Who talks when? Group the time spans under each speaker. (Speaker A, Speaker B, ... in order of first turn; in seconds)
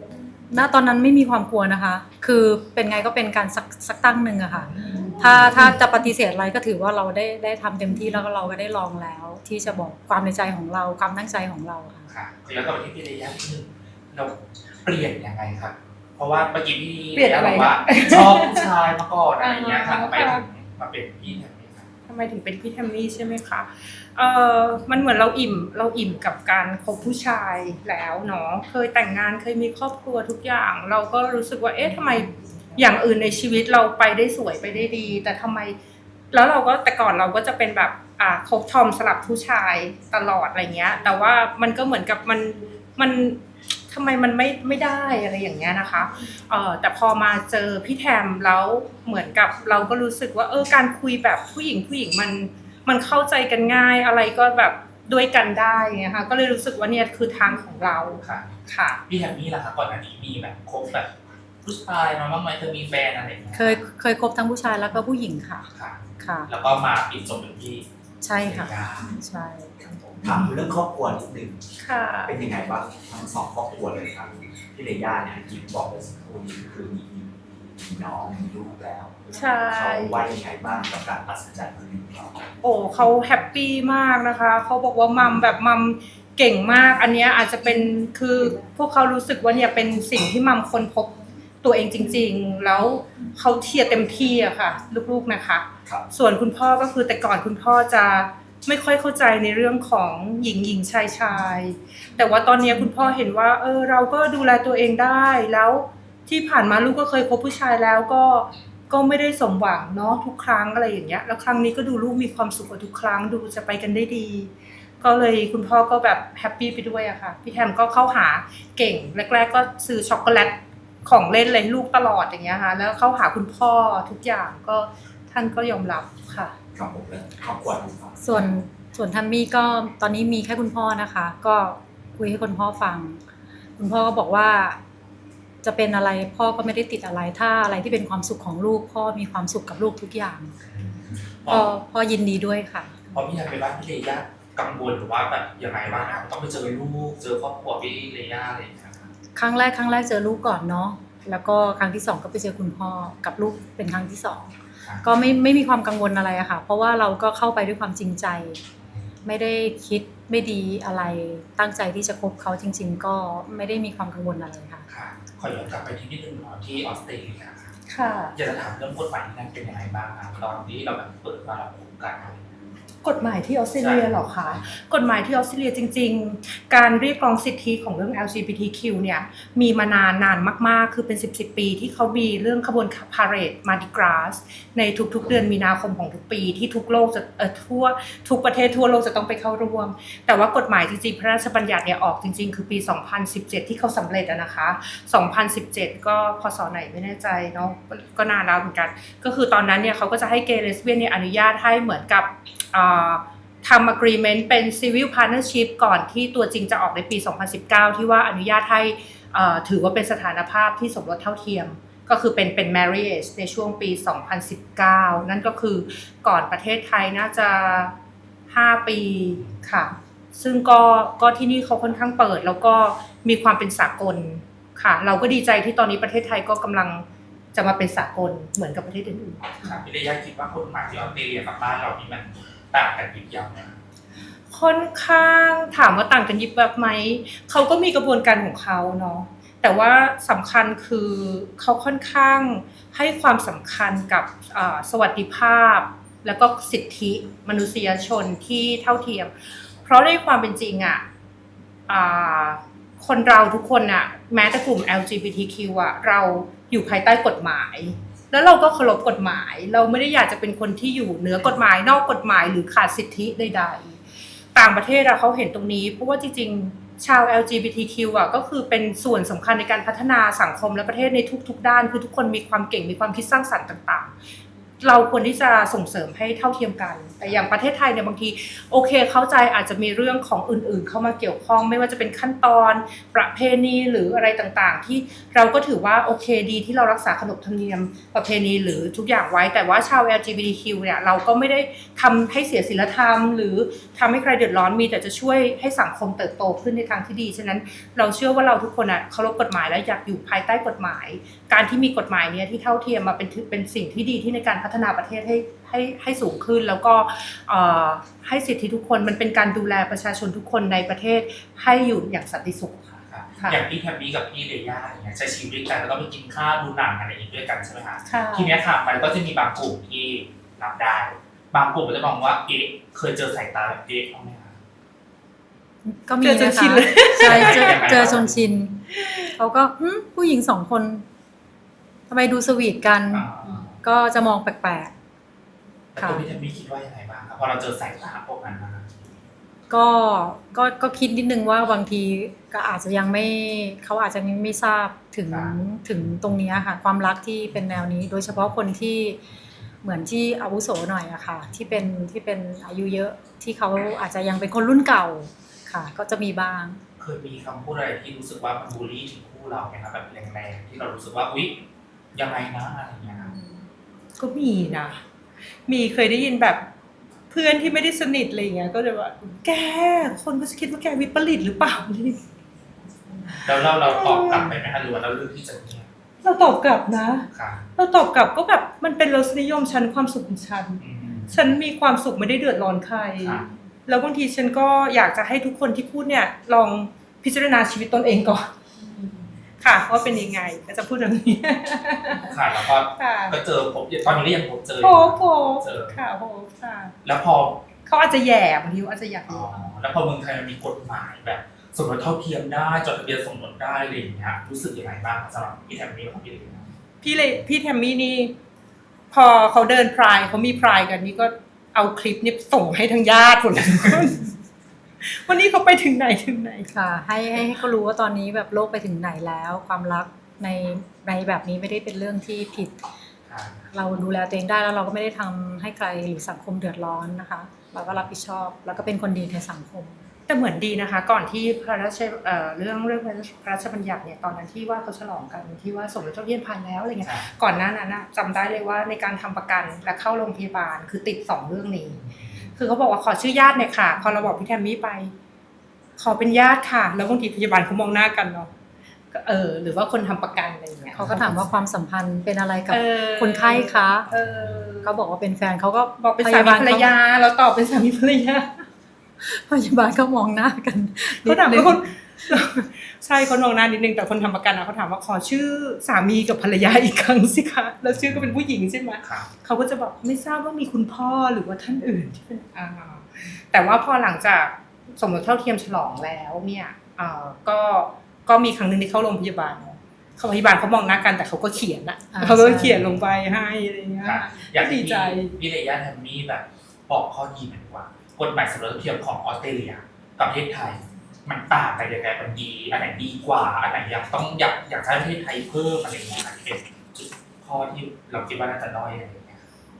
Speaker A: 0.5-12.1, 63.6-65.7, 66.2-66.5, 68.2-69.7, 128.2-133.2, 133.8-134.8, 135.6-140.5, 141.5-143.0, 149.3-154.5, 155.0-158.6, 159.2-164.9, 325.9-328.8, 329.4-331.1, 332.1-334.9, 336.0-336.3, 339.7-349.2, 349.8-356.8, 416.7-422.8, 423.7-430.1, 450.9-454.1, 454.8-456.9, 459.2-461.9, 482.1-482.8
Speaker B: 12.1-21.9, 58.2-58.5, 59.1-61.1, 61.6-63.8, 65.7-67.9, 68.4-69.1, 140.7-141.7, 143.1-149.1, 154.8-155.1, 158.8-159.1, 164.9-167.7, 168.3-172.5, 173.8-174.7, 229.6-233.8, 313.1-324.6, 327.2-328.4, 333.1-333.8, 335.9-339.1, 345.3-345.6, 357.0-361.6, 362.1-363.3, 373.4-375.9, 377.3-377.7, 380.8-381.3, 383.2-383.5, 392.3-396.0, 397.0-397.6, 399.3-406.7, 423.3-423.7, 437.0-437.3, 442.0-442.5, 454.1-454.5, 467.9-468.3, 469.0-469.3, 482.7-483.1, 484.0-499.4
Speaker C: 17.1-18.7, 19.4-20.4, 22.1-35.8, 36.3-59.0, 71.8-72.4, 79.3-80.2, 82.6-126.5, 167.9-168.4, 173.0-217.9, 218.5-229.8, 234.5-251.1, 251.9-264.0, 264.6-274.1, 274.8-313.6, 318.1-318.6, 326.2-328.0, 328.9-329.3, 364.2-365.0, 365.7-366.7, 367.3-372.2, 373.7-374.6, 376.2-388.5, 389.6-392.4, 393.0-393.4, 394.8-396.9, 397.9-399.7, 407.0-408.4, 409.1-414.3, 415.0-416.7, 430.3-442.0, 442.6-445.1, 446.0-448.5, 449.1-451.5, 452.7-454.9, 456.0-458.6, 461.1-485.4
Speaker D: 69.8-71.6, 72.3-82.5, 126.7-128.5